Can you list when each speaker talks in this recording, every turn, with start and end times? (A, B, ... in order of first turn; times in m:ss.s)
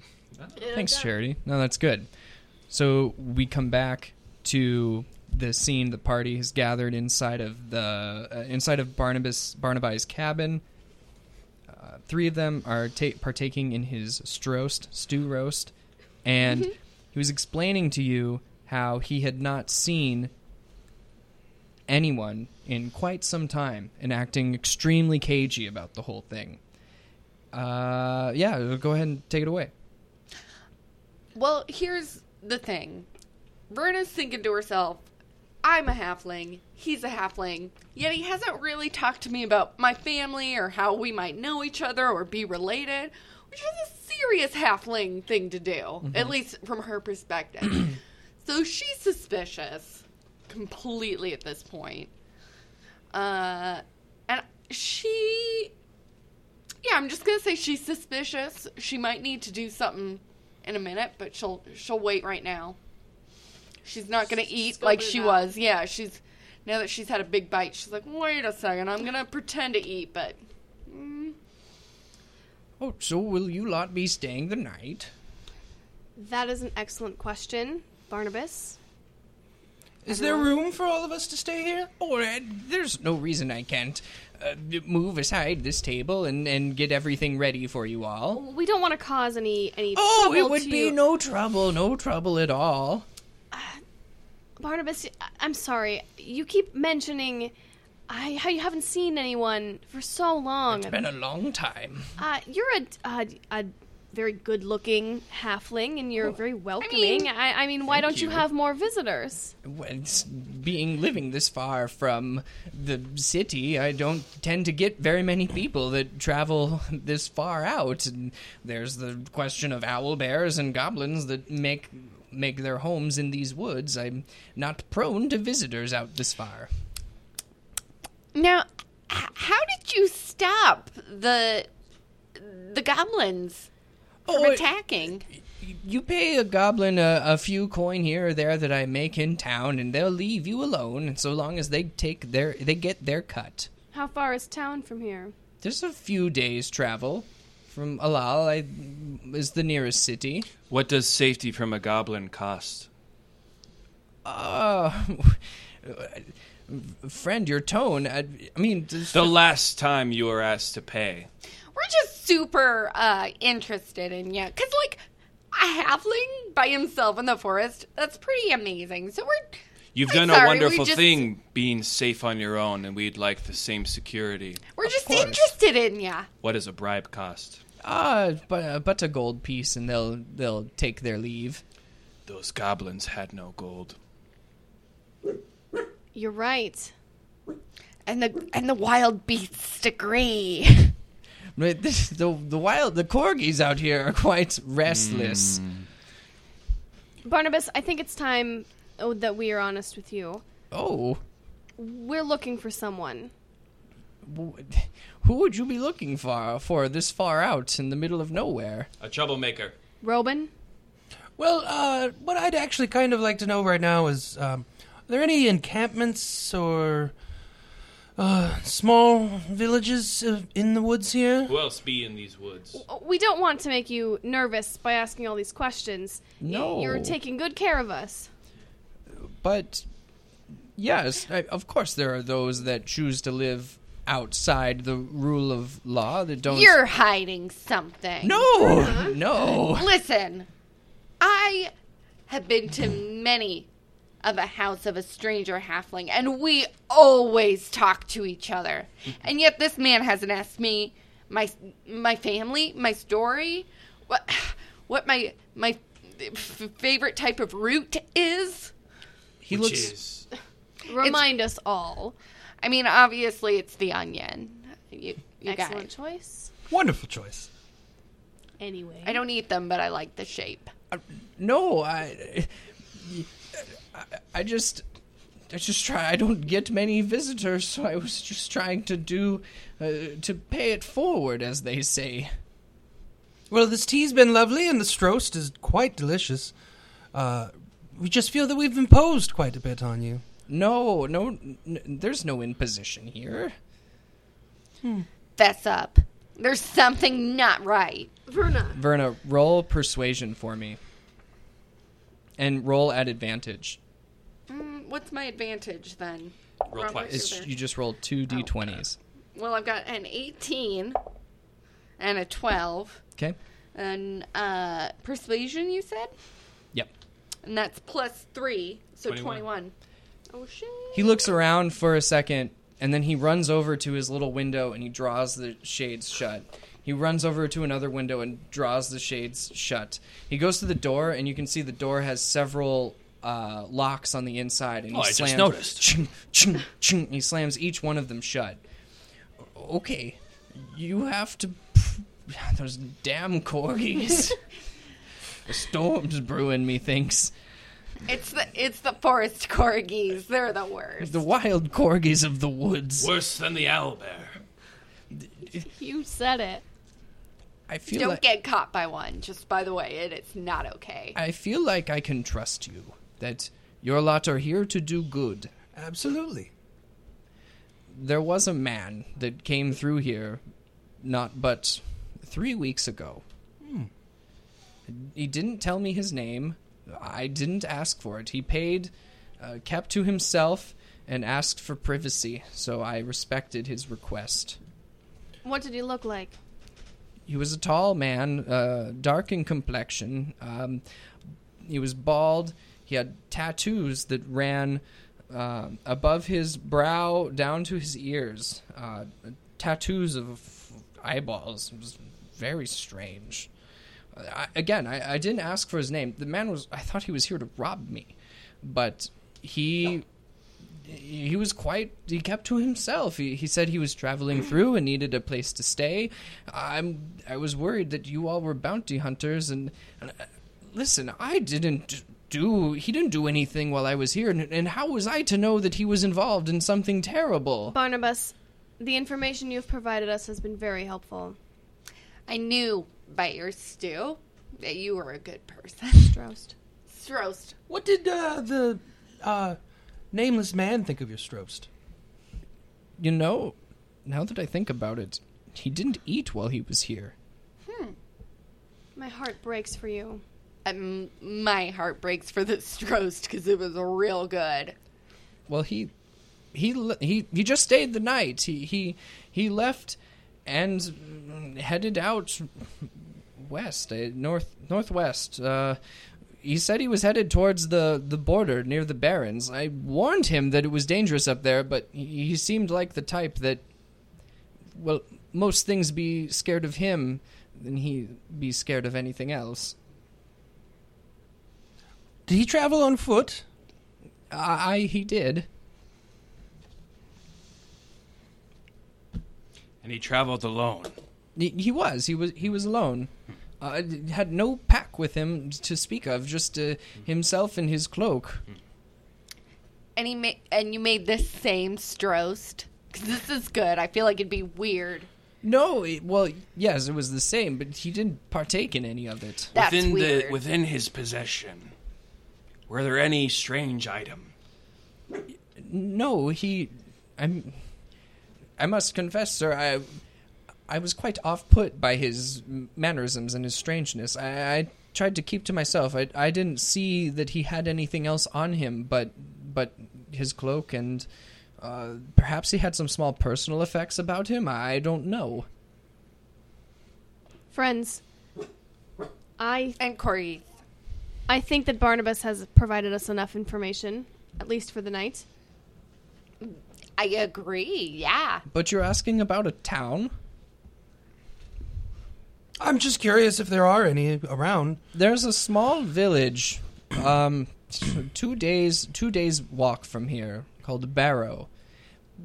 0:00.6-0:01.1 A
0:00.7-0:02.1 B
0:02.7-0:10.6 B
0:11.7-0:15.7 B
0:16.2-0:20.3 B
0:21.9-0:26.6 B
0:27.5-0:29.7 B
0:31.3-0:33.1 C
0:33.7-0:35.0 C
0:35.6-0:52.1 C
0:53.1-0:55.7 C
0:56.8-1:02.8 C
1:03.8-1:11.4 C
1:04.5-1:05.5 A
1:12.8-1:15.1 B
1:16.2-1:18.8 A
1:20.0-1:21.9 D
1:20.1-1:20.5 A
1:22.0-1:28.4 B
1:28.3-1:31.0 A
1:29.9-1:33.0 B
1:33.5-1:33.8 A
1:34.6-1:37.5 A
1:38.1-1:41.0 A
1:40.7-1:42.1 B
1:42.2-1:49.5 A
1:46.8-1:47.3 C
1:47.9-1:48.5 B
1:49.6-2:06.7 B
2:08.3-2:11.7 C
2:12.3-2:13.7 C
2:14.2-2:14.7 B
2:14.3-2:15.2 C
2:15.6-2:23.7 B
2:23.9-2:25.3 A
2:25.6-2:30.5 B
2:30.7-2:32.9 E
2:34.2-2:39.3 B
2:39.1-2:41.3 E
2:41.7-2:51.2 C
2:49.9-2:54.6 E
2:54.7-2:56.3 C
2:54.8-2:55.5 B
2:56.4-2:57.6 E
2:57.8-3:01.6 B
3:02.2-3:04.0 E
3:06.1-3:06.9 A
3:08.1-3:11.0 C
3:11.6-3:15.6 B
3:14.8-3:15.8 E
3:17.2-3:20.4 A
3:20.7-3:21.2 B
3:21.8-3:23.3 A
3:24.2-3:28.9 B
3:29.0-3:29.8 E
3:30.0-3:30.5 A
3:31.4-3:37.1 D
3:38.2-3:41.6 D
3:41.5-3:42.8 E
3:42.7-3:48.3 A
3:46.4-3:47.2 B
3:49.1-3:49.8 B
3:50.8-3:56.8 B
3:56.5-3:58.5 C
3:58.2-3:59.9 B
3:58.4-3:59.2 A
3:59.4-4:00.5 C
4:01.2-4:01.7 C
4:02.3-4:03.7 C
4:04.2-4:18.7 C
4:19.4-4:19.9 B
4:19.5-4:20.2 E
4:20.9-4:22.1 A
4:20.9-4:21.3 C
4:22.6-4:25.9 C
4:25.4-4:26.5 A
4:26.7-4:27.5 D
4:28.6-4:29.2 A
4:29.0-4:30.7 C
4:30.9-4:34.8 B
4:35.5-4:42.3 B
4:43.5-4:46.5 D
4:47.1-4:50.2 D
4:50.5-4:53.5 B
4:54.8-4:55.1 D
4:55.4-4:58.1 C
4:58.3-4:58.8 A
4:58.7-5:00.8 B
5:02.4-5:03.8 B
5:04.5-5:07.5 C
5:06.7-5:07.4 E
5:06.9-5:09.0 B
5:09.3-5:11.0 C
5:12.0-5:13.0 C
5:13.7-5:16.1 C
5:17.4-5:19.7 C
5:19.0-5:19.4 E
5:20.3-5:21.2 C
5:20.9-5:38.6 B
5:34.9-5:35.9 E
5:39.4-5:44.4 B
5:45.4-5:47.3 B
5:48.0-5:51.2 C
5:51.0-5:53.1 B
5:53.0-5:54.4 E
5:55.1-5:55.6 B
5:55.6-5:56.6 A
5:57.7-5:58.2 B
5:57.9-6:01.2 C
6:01.1-6:05.5 B
6:05.7-6:06.5 D
6:07.9-6:10.4 B
6:11.0-6:13.2 B
6:13.6-6:13.9 D
6:14.9-6:24.6 B
6:25.4-6:26.3 A
6:27.2-6:30.8 B
6:31.6-6:43.5 B
6:44.1-6:50.0 B
6:50.8-7:07.7 B
7:07.7-7:11.4 A
7:12.3-7:16.2 C
7:16.1-7:16.5 A
7:16.9-7:17.6 C
7:17.7-7:19.6 D
7:20.1-7:21.7 D
7:23.0-7:27.1 B
7:27.6-7:28.0 C
7:29.0-7:30.2 A
7:30.6-7:34.7 C
7:35.5-7:35.9 B
7:36.5-7:45.8 B
7:46.4-7:53.6 B
7:54.7-7:59.7 B
8:02.3-8:03.4 D
8:04.3-8:05.5 B
8:09.8-8:10.9 E
8:11.4-8:18.4 B
8:20.0-8:25.1 C
8:25.4-8:29.5 B
8:29.5-8:30.4 C
8:29.5-8:31.7 E
8:32.7-8:34.3 E
8:35.6-8:37.6 B
8:38.6-8:40.0 B
8:40.7-8:51.1 B
8:51.6-8:55.5 B
8:57.5-8:58.0 A
8:59.4-8:59.8 A
8:59.8-9:00.5 C
9:01.3-9:05.2 A
9:06.4-9:08.4 C
9:08.5-9:10.1 B
9:12.6-9:14.8 D
9:14.9-9:21.5 B